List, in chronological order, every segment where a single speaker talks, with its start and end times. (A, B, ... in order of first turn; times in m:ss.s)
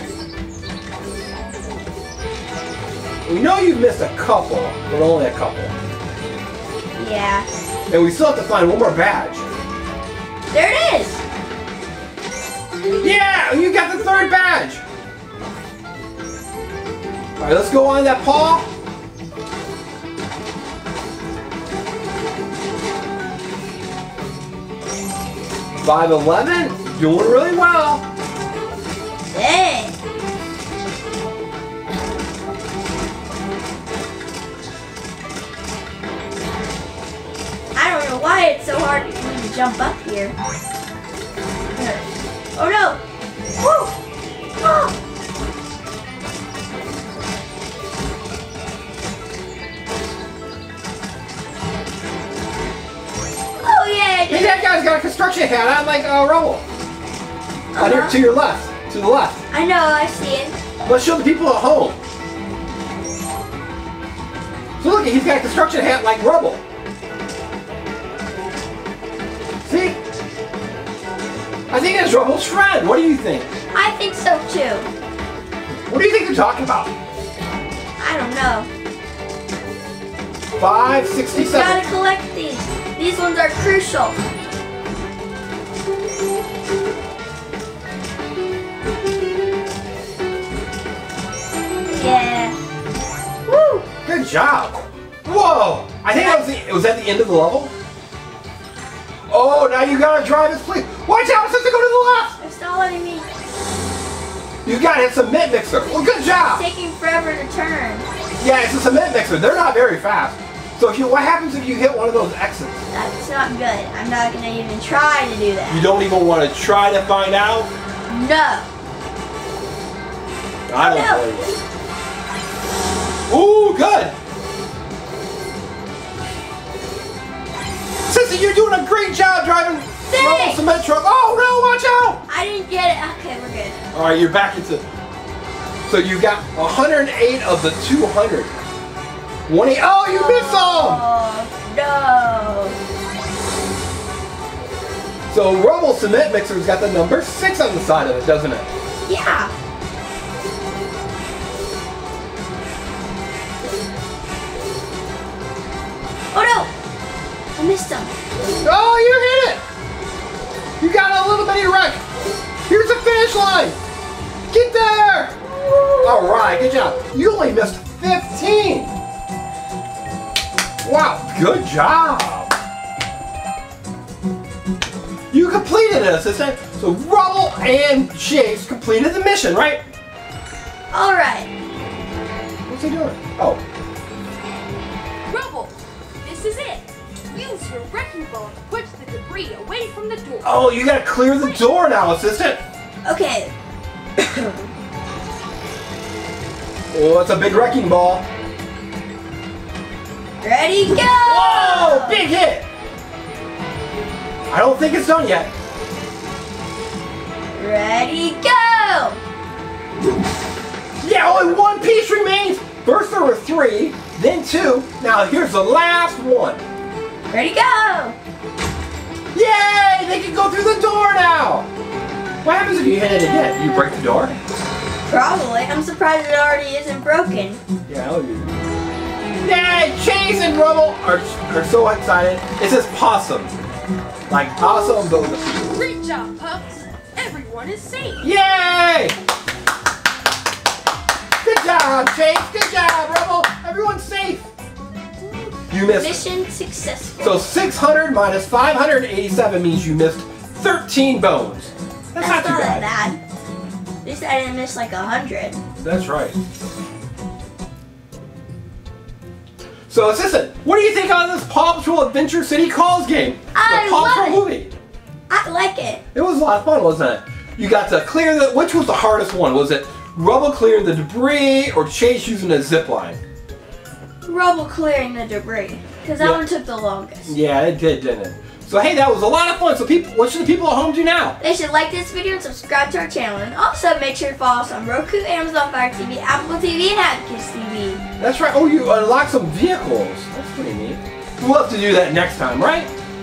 0:03.3-0:05.7 A
0:07.0-0:07.5 B
0:07.9-0:09.5 A
0:10.5-0:11.2 B
0:13.0-0:14.8 A
0:17.4-0:18.7 A
0:25.8-0:28.0 A
0:29.3-0:30.0 B
0:37.8-0:40.4 B
0:41.8-0:43.0 B
0:43.6-0:43.9 B
0:44.6-0:44.9 B
0:53.6-0:54.7 B
0:54.3-0:56.6 A
0:57.7-0:58.2 B
0:57.8-0:59.4 A
0:59.5-1:00.6 B
1:00.8-1:02.0 A
1:04.8-1:06.6 A
1:09.6-1:10.0 A
1:11.7-1:13.5 A
1:13.7-1:14.9 B
1:15.9-1:16.9 A
1:18.0-1:18.7 B
1:20.6-1:21.8 A
1:21.3-1:24.2 B
1:32.0-1:32.6 B
1:33.5-1:33.8 B
1:34.0-1:37.7 A
1:36.1-1:36.4 B
1:39.3-1:42.4 A
1:42.4-1:43.3 B
1:44.6-1:46.6 A
1:46.4-1:48.1 B
1:48.4-1:52.8 A
1:52.9-1:55.9 B
1:55.7-1:57.7 A
1:58.1-1:58.7 B
2:00.7-2:01.6 A
2:00.8-2:01.3 B
2:03.3-2:04.2 A
2:08.1-2:12.2 A
2:10.1-2:10.6 B
2:12.3-2:13.8 B
2:13.9-2:14.8 A
2:15.9-2:18.5 A
2:19.5-2:21.0 A
2:20.0-2:22.8 B
2:25.3-2:28.7 A
2:29.1-2:29.5 B
2:36.3-2:36.7 B
2:37.6-2:38.2 B
2:38.6-2:39.6 A
2:40.8-2:42.0 A
2:42.7-2:43.8 A
2:44.5-2:45.4 A
2:45.6-2:47.0 B
2:46.0-2:48.9 A
2:50.8-2:52.5 A
2:55.3-2:59.8 A
3:00.9-3:01.5 B
3:02.6-3:03.6 A
3:05.3-3:10.7 C
3:10.4-3:12.6 A
3:13.0-3:13.5 B
3:14.2-3:14.7 B
3:16.9-3:18.2 A
3:20.4-3:22.3 B
3:21.2-3:22.7 A
3:24.5-3:25.5 A
3:27.6-3:29.2 B
3:31.0-3:36.6 A
3:37.3-3:38.2 B
3:39.3-3:41.7 A
3:42.4-3:44.4 A
3:45.1-3:47.6 B
3:47.9-3:48.6 A
3:49.4-3:53.5 A
3:54.3-3:55.7 A
3:55.6-3:58.3 C
3:58.2-3:59.2 A
4:01.4-4:04.4 A
4:05.7-4:06.2 A
4:05.9-4:07.4 B
4:07.2-4:12.9 A
4:12.2-4:13.2 B
4:14.0-4:15.6 B
4:15.8-4:16.4 A
4:19.9-4:24.7 A
4:23.5-4:24.4 B
4:25.3-4:26.0 B
4:26.1-4:33.2 A
4:34.3-4:37.3 B
4:37.3-4:41.4 A
4:41.4-4:48.0 B
4:48.2-4:52.9 A